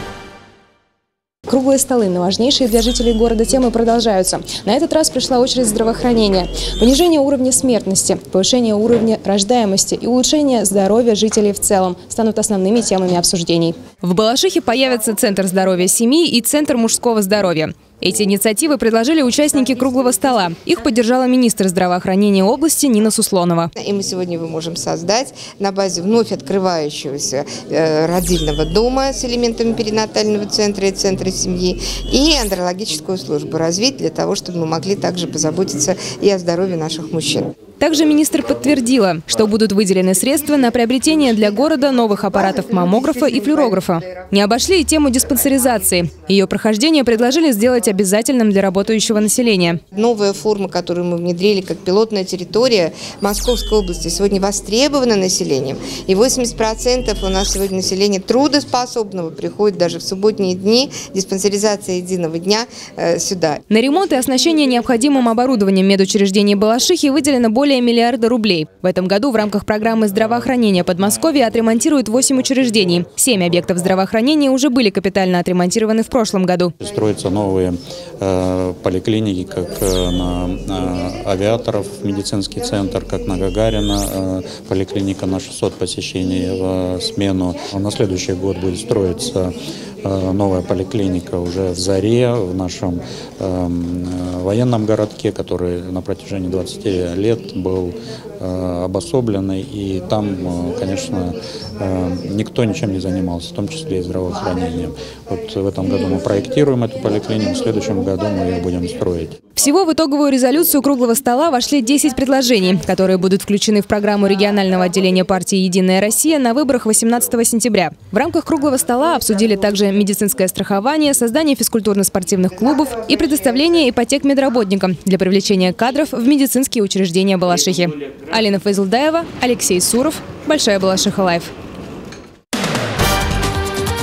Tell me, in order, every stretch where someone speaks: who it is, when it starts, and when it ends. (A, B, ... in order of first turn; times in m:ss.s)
0:01.5-0:23.7 A
0:23.8-0:37.5 B
0:37.8-0:49.8 A
0:42.5-0:43.8 B
0:49.9-1:03.6 B
1:03.7-1:16.7 A
1:16.8-1:49.4 C
1:49.6-2:11.5 A